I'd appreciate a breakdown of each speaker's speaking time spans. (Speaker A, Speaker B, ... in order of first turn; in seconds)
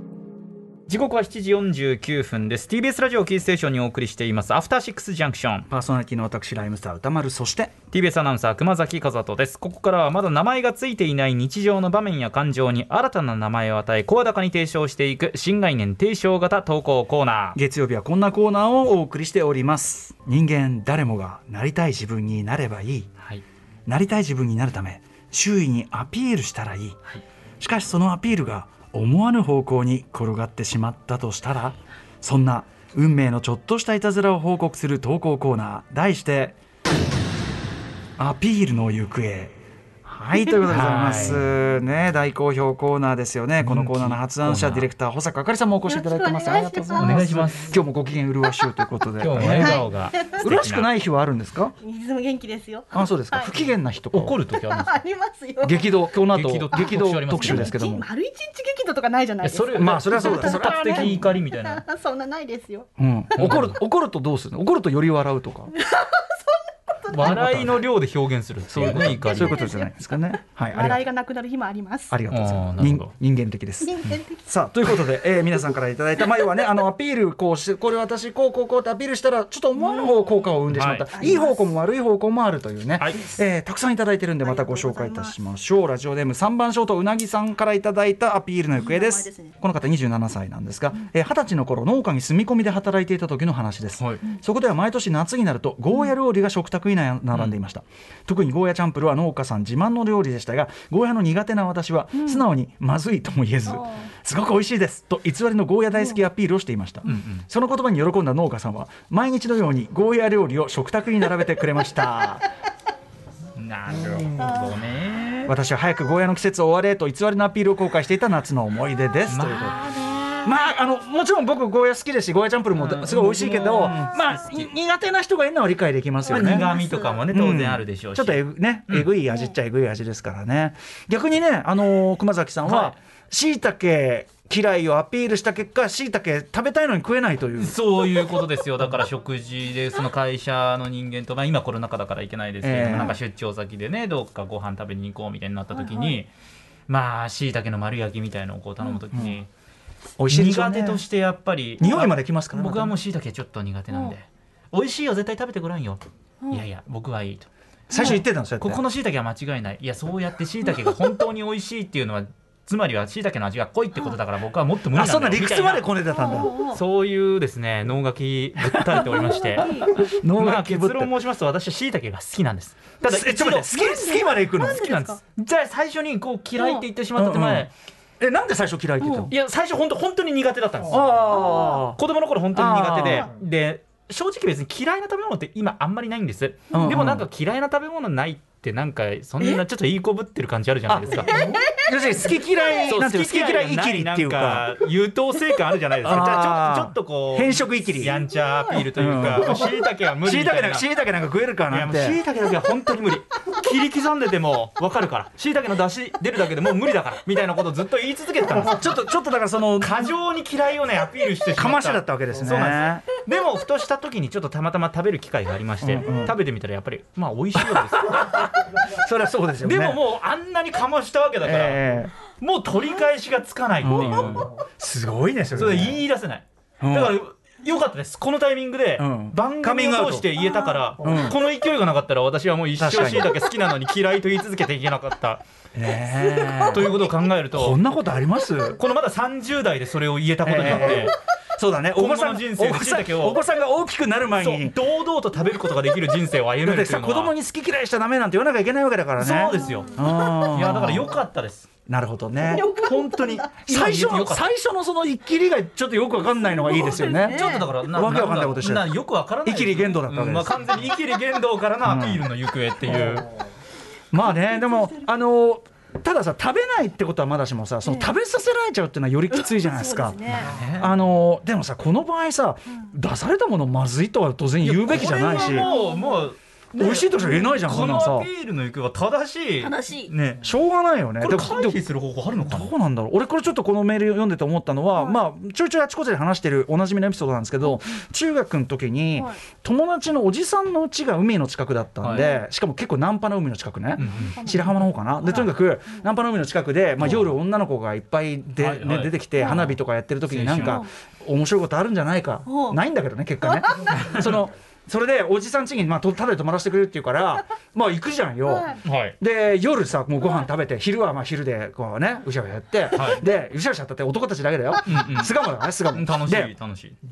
Speaker A: 0.9-5.7, 7.9-17.6, 40.6-41.5, 43.6-44.9, 47.0-47.8, 49.2-50.9, 54.1-55.0, 56.3-57.8, 59.4-61.8, 63.3-63.8, 67.1-69.6, 72.3-73.1, 80.7-81.1, 83.0-83.3, 94.0-94.2, 97.3-97.6, 107.0-107.4, 113.6-115.5, 119.3-120.6, 122.7-124.7, 126.3-129.1, 132.6-133.0, 137.6-146.3, 146.9-149.5, 150.3-157.5, 158.0-173.8, 174.5-177.7, 179.3-181.3, 181.9-191.4, 192.8-200.9, 201.7-208.9, 209.8-218.4, 219.6-221.8, 222.4-224.5, 225.5-235.4, 236.7-237.8, 238.7-241.2, 241.9-243.4, 244.4-247.3, 249.2-251.7, 252.8-254.5, 257.1-263.3, 270.4-270.9, 274.6-280.4, 281.2-282.7, 292.0-292.3, 294.0-294.4, 297.0-297.3, 298.6-300.8, 304.0-304.3, 308.8-309.2, 312.9-313.2, 314.8-315.3, 315.9-317.0
Speaker B: 5.7-7.7, 17.5-23.1, 23.9-27.0, 27.6-36.5, 38.2-39.5, 40.0-49.8, 50.4-51.7, 52.9-54.4, 55.6-58.0, 59.8-61.2, 63.0-65.7, 67.2-67.8, 68.7-71.0, 72.1-73.9, 74.4-112.4, 115.5-119.8, 120.4-126.7, 127.3-137.8, 142.6-143.2, 149.1-149.4, 150.2-151.0, 151.8-153.0, 157.9-158.8, 164.9-166.5, 168.8-169.0, 169.9-171.1, 173.0-174.8, 177.2-177.7, 178.2-179.3, 180.9-182.0, 182.5-183.3, 186.7-187.2, 190.9-194.7, 196.0-198.2, 198.9-199.7, 200.2-202.2, 208.6-209.9, 211.5-213.0, 215.8-216.3, 217.6-220.0, 221.4-222.1, 223.8-226.0, 226.8-227.2, 229.0-230.3, 231.0-231.4, 232.8-233.3, 235.7-237.0, 237.5-238.8, 240.4-244.8, 246.6-251.2, 251.9-258.9, 259.4-260.6, 261.8-262.2, 262.9-263.2, 264.1-275.7, 276.7-278.3, 280.4-281.8, 282.4-316.5
Speaker C: 45.9-47.5, 49.5-50.4, 51.8-53.7, 54.5-56.1, 56.7-62.9, 65.7-67.3, 68.8-72.2, 73.8-74.5, 76.3-76.7, 79.8-80.5, 81.1-81.6, 84.4-85.3, 88.7-89.5, 102.2-102.4, 103.7-104.0, 126.3-127.2, 145.7-146.2, 157.9-158.2, 166.1-166.8, 169.0-169.9, 173.7-175.2, 176.6-176.8, 179.0-179.3, 181.3-181.8, 191.3-191.9, 198.4-198.8, 230.5-230.7, 249.8-250.1, 252.4-253.6, 256.6-257.7, 264.1-265.1, 267.8-268.1, 269.3-270.5, 274.9-276.3, 277.2-277.6, 279.6-280.1, 292.1-292.4, 294.0-294.6, 295.2-296.0, 300.6-300.9, 302.5-302.8, 303.4-303.9, 308.4-308.8